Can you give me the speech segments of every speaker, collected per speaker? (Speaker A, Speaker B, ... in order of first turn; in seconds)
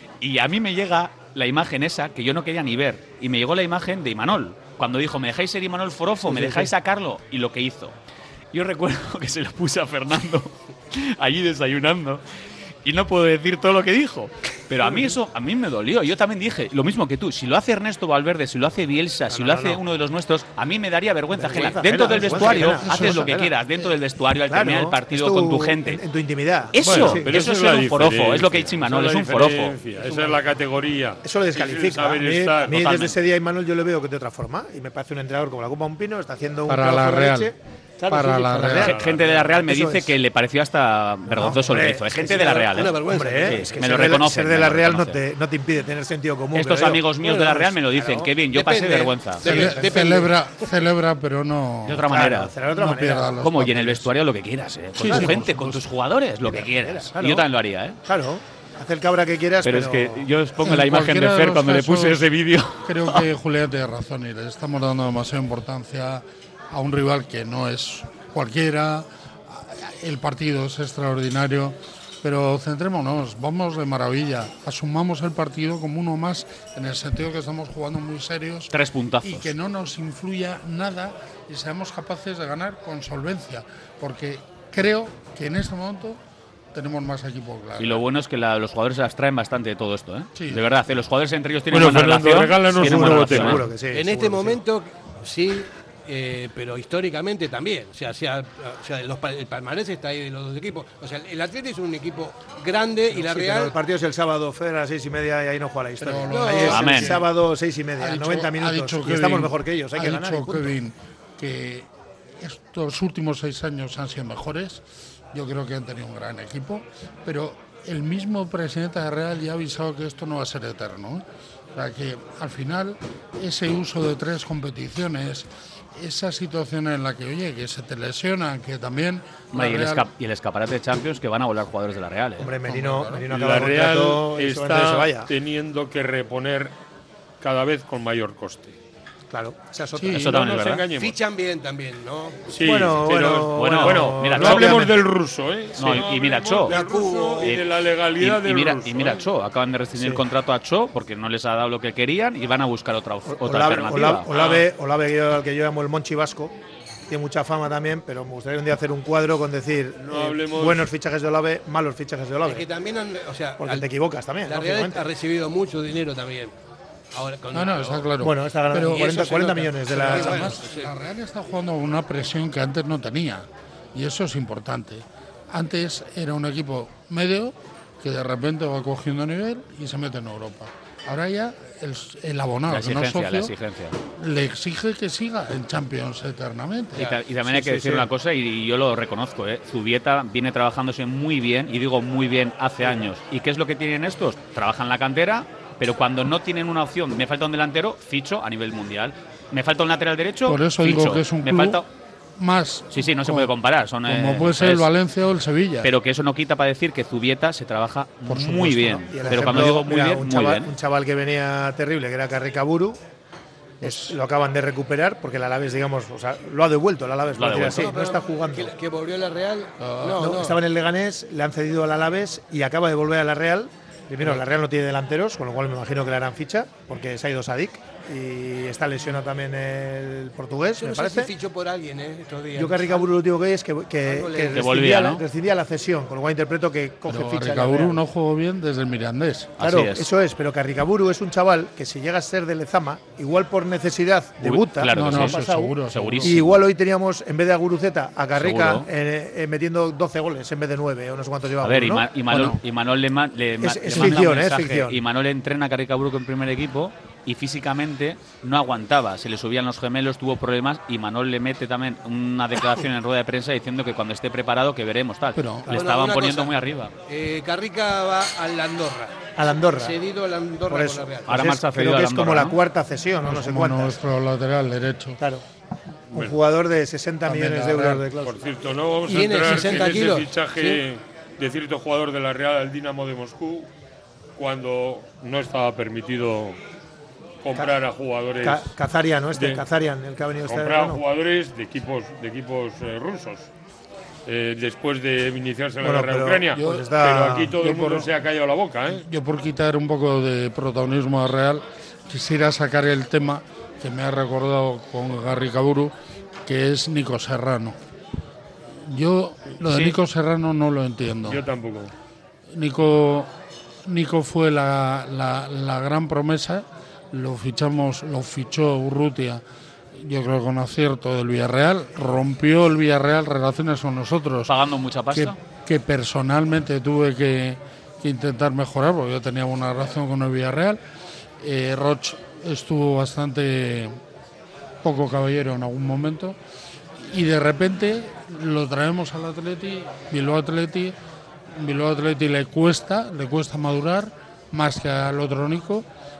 Speaker A: 0.2-7.9, 8.5-12.2, 12.8-26.0, 26.7-29.8, 32.7-33.2, 38.7-45.2, 46.5-49.5, 51.9-52.5, 53.4-58.0, 59.6-63.2, 78.7-79.5, 87.8-93.6, 106.7-107.2, 129.5-132.5, 140.1-140.8, 143.5-144.9, 145.8-146.7, 148.2-154.3, 182.7-184.0, 186.9-201.8, 202.9-204.9, 205.8-210.7, 217.3-218.0, 234.5-235.2, 239.6-240.1, 244.4-246.6, 248.3-248.9, 251.6-266.9, 271.2-272.6, 309.6-309.9, 324.5-325.4
Speaker B: 6.2-6.7, 14.8-15.1, 19.3-19.8, 21.3-23.5, 24.5-27.3, 30.0-30.3, 31.2-40.1, 41.3-48.3, 49.4-50.2, 52.1-53.4, 55.0-55.5, 56.4-57.5, 58.0-60.2, 92.7-94.6, 103.1-110.7, 132.4-135.3, 139.3-140.4, 142.6-145.0, 149.9-150.2, 153.3-156.6, 157.1-162.7, 163.6-165.1, 168.2-170.6, 187.0-188.1, 208.3-213.0, 213.8-218.8, 220.1-231.3, 232.5-238.0, 239.6-252.1, 253.6-255.0, 269.4-270.0, 270.7-274.0, 275.2-275.4, 276.1-278.4, 288.4-291.0, 295.8-297.6
Speaker C: 22.1-23.6, 36.7-37.5, 38.1-39.0, 49.4-52.2, 52.7-54.1, 55.0-55.9, 60.6-62.3, 62.8-78.7, 79.2-86.2, 86.7-88.0, 90.3-90.6, 106.0-107.3, 108.0-111.9, 112.4-130.1, 132.6-133.2, 139.9-140.4, 167.5-169.3, 169.9-183.5, 184.1-187.1, 200.4-201.8, 202.4-203.5, 204.0-205.9, 209.3-209.6, 213.8-214.2, 219.8-220.4, 237.1-239.6, 244.9-246.4, 252.3-252.6, 265.3-265.8, 273.2-275.2, 277.2-278.1, 279.1-280.0, 296.5-296.9, 297.5-298.1, 298.9-305.9, 306.4-307.8, 308.8-311.4, 312.5-313.3, 313.9-319.4, 319.9-324.5, 325.1-330.8, 331.4-334.0, 334.8-336.4, 337.0-340.9, 341.5-345.9
Speaker D: 26.8-32.9, 38.9-39.3, 91.7-93.7, 133.3-136.7, 137.4-138.7, 140.1-141.2, 142.5-149.2, 154.3-154.6, 160.0-160.9, 278.1-283.7, 284.4-286.6, 287.4-288.7, 289.3-289.6, 290.4-293.5, 294.2-299.0, 311.2-311.9
Speaker E: 42.2-43.9, 48.5-50.4, 93.9-103.7, 106.3-107.0, 140.9-142.5, 146.6-147.6, 162.4-163.9, 164.4-166.5, 167.1-168.1, 168.8-170.9, 217.6-220.6, 230.8-233.1, 234.0-234.6, 265.7-266.5, 267.1-269.1, 269.7-271.4, 279.1-280.8